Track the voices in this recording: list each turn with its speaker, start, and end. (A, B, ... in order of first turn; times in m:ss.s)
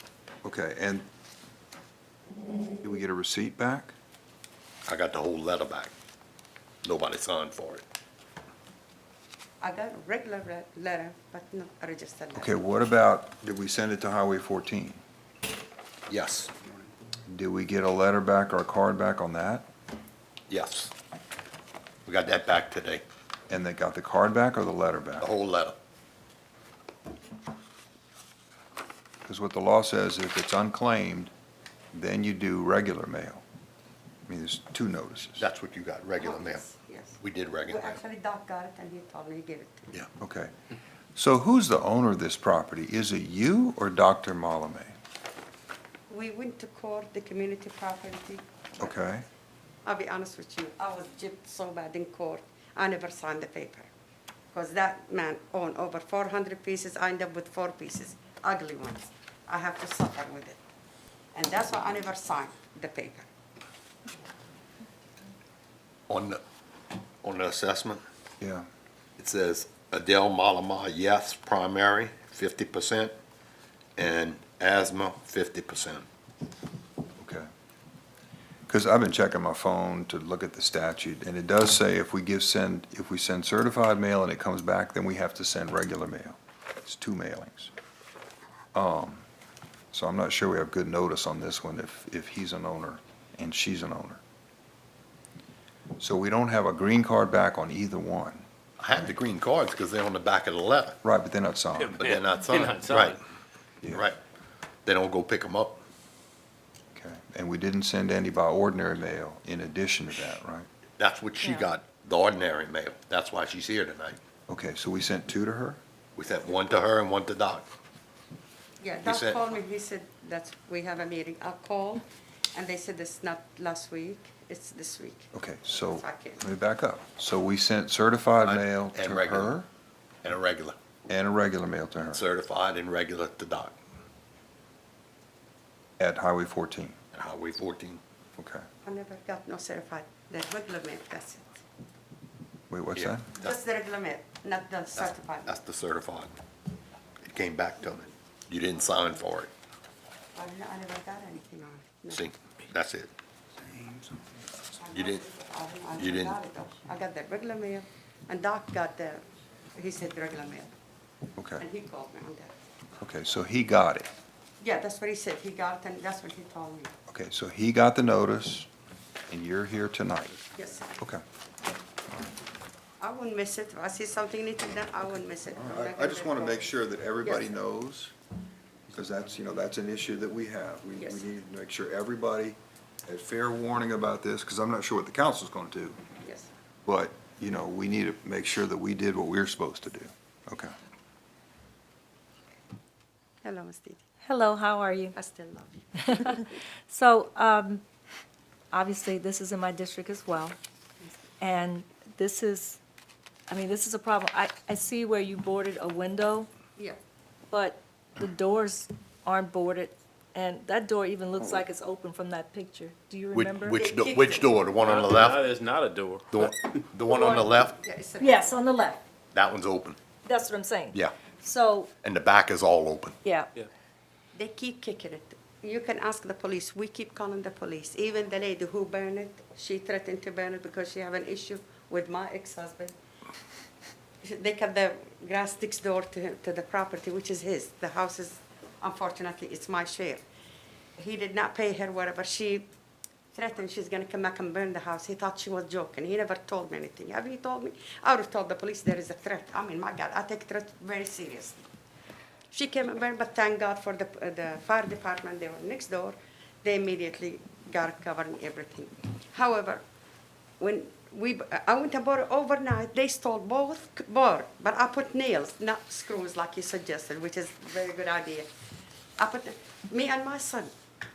0:00.4-0:01.1 A
0:02.8-0:03.9 A
0:04.8-0:05.9 B
0:06.8-0:07.8 B
0:09.6-0:12.5 C
0:12.3-0:15.0 A
0:16.1-0:16.5 B
0:17.3-0:19.7 A
0:20.5-0:20.9 B
0:22.0-0:23.0 B
0:23.5-0:25.3 A
0:25.2-0:25.8 B
0:29.2-0:31.3 A
0:31.9-0:33.4 A
0:34.3-0:35.4 A
0:35.4-0:36.6 B
0:36.2-0:39.9 C
0:37.2-0:38.0 B
0:40.2-0:40.5 A
0:41.2-0:44.9 A
0:46.1-0:48.9 C
0:48.8-0:49.2 A
0:49.8-0:53.9 C
0:54.5-1:00.6 C
1:01.3-1:03.3 C
1:06.1-1:06.4 B
1:07.2-1:08.0 B
1:08.4-1:08.6 A
1:09.2-1:13.1 B
1:14.0-1:16.0 B
1:17.2-1:17.5 A
1:18.7-1:27.7 A
1:28.7-1:29.2 A
1:29.9-1:34.2 A
1:36.0-1:39.1 A
1:38.8-1:41.0 B
1:41.0-1:42.0 A
1:41.8-1:43.2 D
1:42.0-1:43.2 B
1:43.9-1:44.2 B
1:44.8-1:45.8 B
1:46.9-1:50.7 A
1:51.0-1:54.2 B
1:51.4-1:51.6 E
1:54.5-1:55.8 A
1:56.2-1:57.7 B
1:58.8-2:06.4 C
1:59.0-1:59.4 B
2:05.3-2:09.7 A
2:08.4-2:09.6 B
2:10.2-2:10.8 B
2:11.1-2:12.2 A
2:12.1-2:13.8 B
2:16.0-2:17.0 A
2:17.1-2:18.0 B
2:18.4-2:18.6 A
2:18.8-2:21.6 C
2:22.7-2:23.3 A
2:23.0-2:23.6 B
2:23.3-2:25.6 C
2:25.0-2:26.3 B
2:27.2-2:29.5 B
2:30.3-2:32.2 C
2:32.1-2:33.1 B
2:34.8-2:39.2 C
2:34.9-2:35.2 B
2:36.0-2:36.4 B
2:39.8-2:40.7 C
2:41.4-2:41.6 A
2:41.6-2:42.5 C
2:43.0-2:44.1 A
2:44.6-2:46.9 C
2:47.1-2:48.7 A
2:49.3-2:50.4 A
2:50.6-2:50.9 C
2:53.0-2:56.7 C
2:55.6-2:58.1 A
2:58.9-3:06.0 A
3:01.0-3:01.2 C
3:06.2-3:06.5 C
3:06.8-3:10.7 A
3:13.4-3:14.0 C
3:14.2-3:15.1 E
3:15.1-3:16.5 C
3:16.0-3:17.8 E
3:18.7-3:20.6 E
3:21.4-3:22.8 E
3:23.5-3:26.5 E
3:27.5-3:33.8 E
3:33.3-3:35.4 B
3:33.7-3:34.5 C
3:34.8-3:36.4 D
3:36.3-3:37.7 B
3:37.1-3:38.7 C
3:37.1-3:37.5 E
3:38.2-3:39.0 E
3:39.3-3:40.0 B
3:40.2-3:41.9 E
3:42.0-3:43.2 B
3:43.2-3:43.5 E
3:44.3-3:52.9 C
3:54.2-4:00.2 C
4:01.0-4:02.7 C
4:03.3-4:11.6 C
4:12.5-4:19.8 C
4:20.6-4:28.5 C
4:29.2-4:30.7 C